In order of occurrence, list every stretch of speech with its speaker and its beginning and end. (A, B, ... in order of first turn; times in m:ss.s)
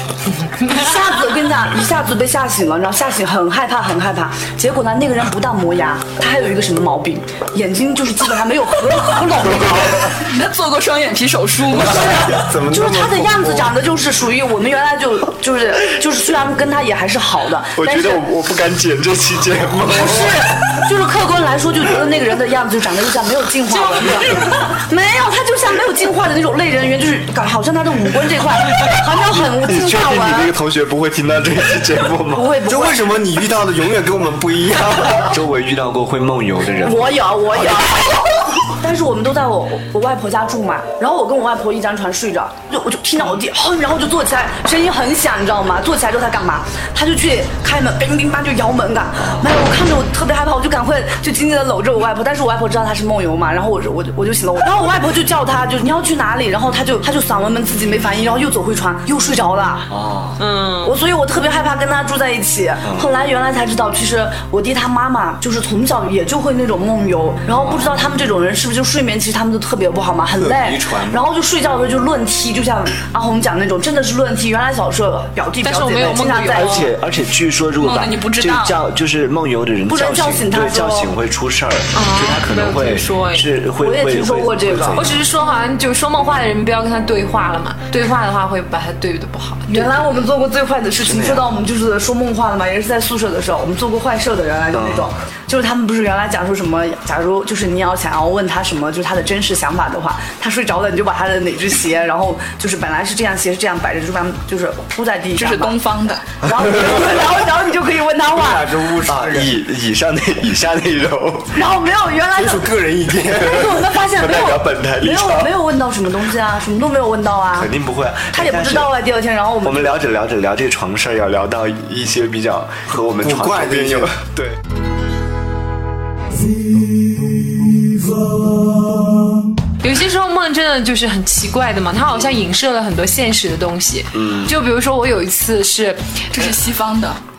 0:00.6-0:10.1 A
0:10.2-0:12.4 B
0:11.7-0:13.6 C
0:12.6-0:13.7 D
0:12.7-0:18.2 A
0:17.8-0:20.7 C
0:19.9-0:30.5 A
0:23.7-0:24.7 E
0:29.3-0:32.6 C
0:32.3-0:33.3 A
0:32.6-0:35.4 D
0:35.2-0:37.9 C
0:36.8-0:59.9 A
0:59.9-1:00.4 C
1:00.4-1:01.0 E
1:00.8-1:16.9 A
1:02.8-1:03.1 C
1:07.6-1:08.1 C
1:10.4-1:11.3 D
1:15.6-1:16.9 E
1:16.0-1:25.1 C
1:17.8-1:18.8 B
1:19.9-1:21.1 A
1:21.9-1:23.5 E
1:23.8-1:25.0 A
1:25.0-1:30.0 E
1:29.7-1:45.8 A
1:31.0-1:31.5 C
1:34.7-1:35.1 C
1:45.3-1:46.2 B
1:46.4-1:48.8 A
1:46.5-1:47.2 C
1:48.5-1:49.5 D
1:49.1-1:51.6 C
1:51.5-1:57.7 A
1:52.4-1:53.4 D
1:53.2-1:55.6 C
1:57.5-1:59.0 C
1:58.3-1:59.9 A
1:59.6-2:04.6 C
2:03.2-2:04.1 D
2:09.8-2:16.0 E
2:14.1-2:14.5 C
2:16.3-2:17.2 B